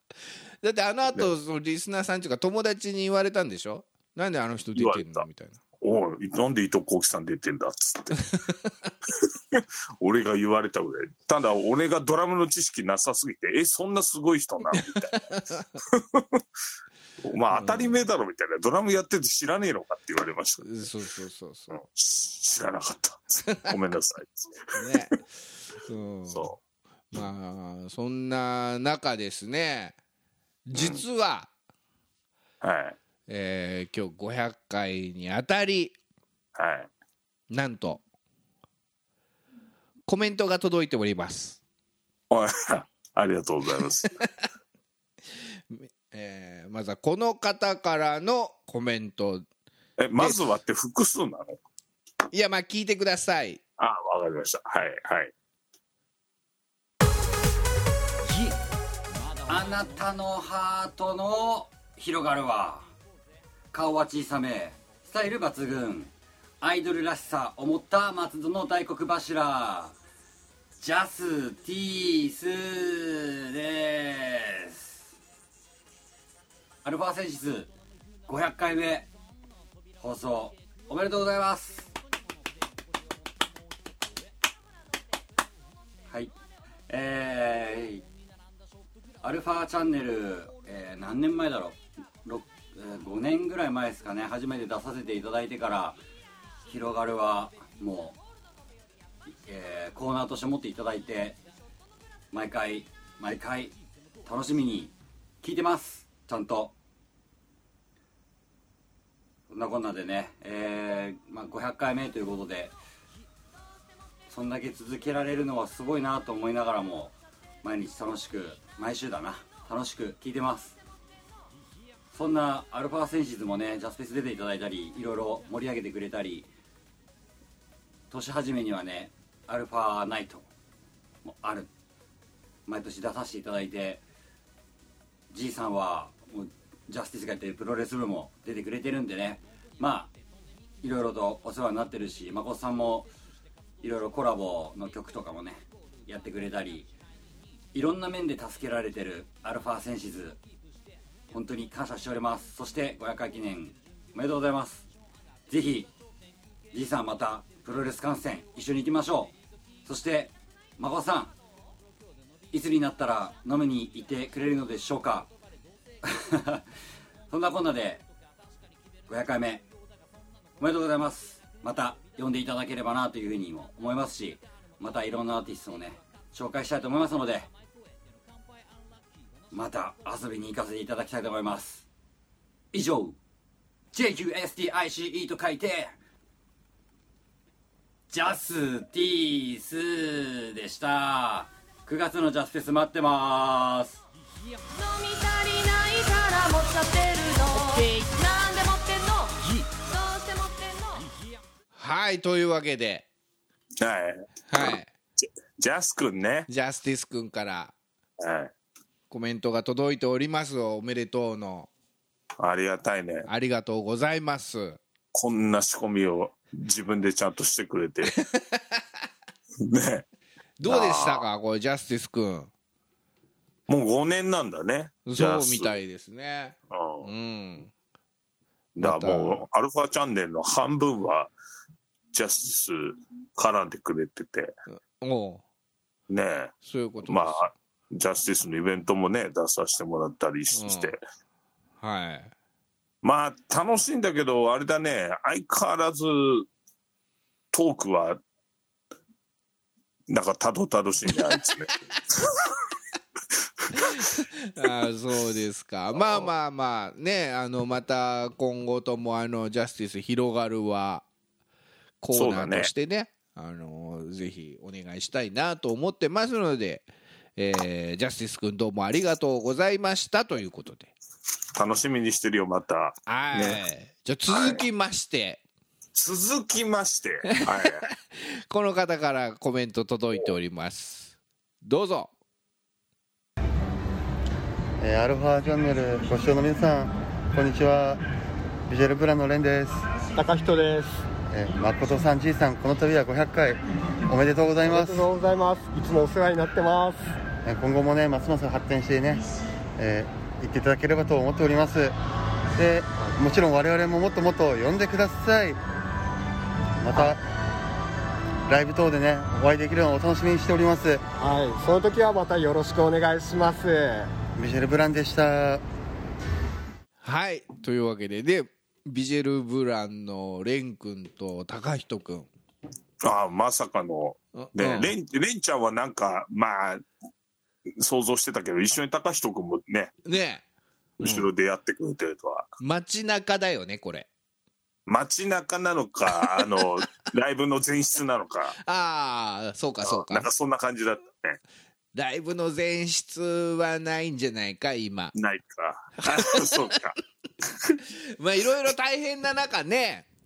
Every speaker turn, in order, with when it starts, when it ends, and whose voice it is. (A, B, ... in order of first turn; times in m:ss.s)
0:00.6-0:05.6 A
0:04.7-0:05.2 B
0:05.8-0:08.3 B
0:08.2-0:08.9 A
0:09.1-0:16.4 B
0:14.7-0:15.7 A
0:17.2-0:20.8 B
0:17.5-0:18.0 A
0:20.6-0:21.8 A
0:21.7-0:25.1 B
0:23.5-0:23.8 A
0:24.8-0:26.5 A
0:26.3-0:26.6 B
0:27.1-0:30.0 A
0:30.7-0:31.5 A
0:30.8-0:31.0 B
0:32.6-0:33.0 B
0:33.3-0:36.0 A
0:36.6-0:36.9 B
0:37.5-0:38.0 A
0:40.1-0:41.6 A
0:42.3-0:44.1 B
0:43.7-0:44.4 A
0:45.4-0:49.5 A
0:50.0-0:51.6 B
0:52.3-0:53.6 A
0:53.8-0:55.3 B
0:58.3-0:58.6 C
0:59.5-1:02.9 C
1:03.7-1:10.0 C
1:10.8-1:15.0 C
1:16.8-1:17.7 C
1:18.3-1:19.1 C
1:20.0-1:21.9 C
1:26.9-1:28.0 C
1:29.2-1:36.0 C
1:36.7-1:38.2 C
1:39.5-1:41.4 C
1:42.3-1:46.8 C
1:49.5-1:52.8 C
1:54.3-2:00.8 C
2:02.1-2:06.5 C
2:08.1-2:10.5 C
2:11.2-2:11.7 C
2:12.7-2:14.0 C
2:15.3-2:20.1 C
2:20.8-2:23.1 C
2:23.8-2:26.9 C
2:27.7-2:30.4 C
2:31.3-2:34.9 C
2:35.5-2:35.9 C
2:36.7-2:39.3 C
2:39.8-2:41.3 C
2:42.5-2:45.3 C
2:46.0-2:46.6 C
2:47.3-2:48.0 C
2:49.1-2:49.7 C
2:50.6-2:57.5 C
2:59.5-3:01.9 C
3:02.7-3:03.2 C
3:03.9-3:06.0 C
3:08.1-3:14.0 C
3:14.8-3:21.1 D
3:21.8-3:23.1 A
3:23.8-3:26.5 B
3:24.5-3:24.9 A
3:26.5-3:27.7 A
3:28.2-3:28.5 B
3:29.1-3:31.7 A
3:32.4-3:33.3 B
3:33.3-3:34.8 A
3:35.1-3:38.2 B
3:38.1-3:38.8 A
3:39.6-3:40.0 B
3:40.6-3:42.5 A
3:40.6-3:41.2 B
3:43.7-3:45.7 B
3:45.1-3:47.7 A
3:46.7-3:47.1 B
3:48.8-3:51.3 B
3:48.8-3:49.4 A
3:52.1-3:54.5 B
3:54.7-3:55.4 A
3:56.1-4:01.0 B
3:56.6-3:57.5 A
4:00.5-4:01.0 A
4:01.8-4:02.3 A
4:03.0-4:06.5 B
4:07.5-4:08.2 B
4:10.1-4:12.4 B
4:13.6-4:14.0 B
4:13.7-4:21.0 A
4:16.0-4:16.3 B
4:22.0-4:30.9 A
4:22.1-4:22.7 B
4:31.6-4:33.6 B
4:33.1-4:35.4 A
4:34.3-4:34.6 B
4:36.0-4:37.9 B
4:37.3-4:42.1 A
4:44.8-4:48.0 E
4:48.7-4:49.8 E
4:50.2-4:51.0 F
4:51.3-4:55.1 E
4:54.6-4:57.1 F
4:57.4-4:59.2 E
4:59.8-5:02.0 E
5:02.6-5:05.6 E
5:06.8-5:07.2 E
5:08.5-5:11.0 E
5:11.2-5:14.1 F
5:14.4-5:15.6 E
5:17.0-5:22.3 A
5:23.0-5:26.9 B
5:24.4-5:24.9 A
5:27.8-5:30.0 B
5:30.1-5:30.4 A
5:31.0-5:31.3 A
5:31.0-5:32.5 B
5:32.6-5:34.1 A
5:34.9-5:38.6 B
5:36.1-5:36.6 A
5:38.6-5:40.3 A
5:39.8-5:41.4 B
5:42.0-5:45.1 A
5:45.1-5:47.0 B
5:46.0-5:46.8 A
5:47.7-5:50.1 A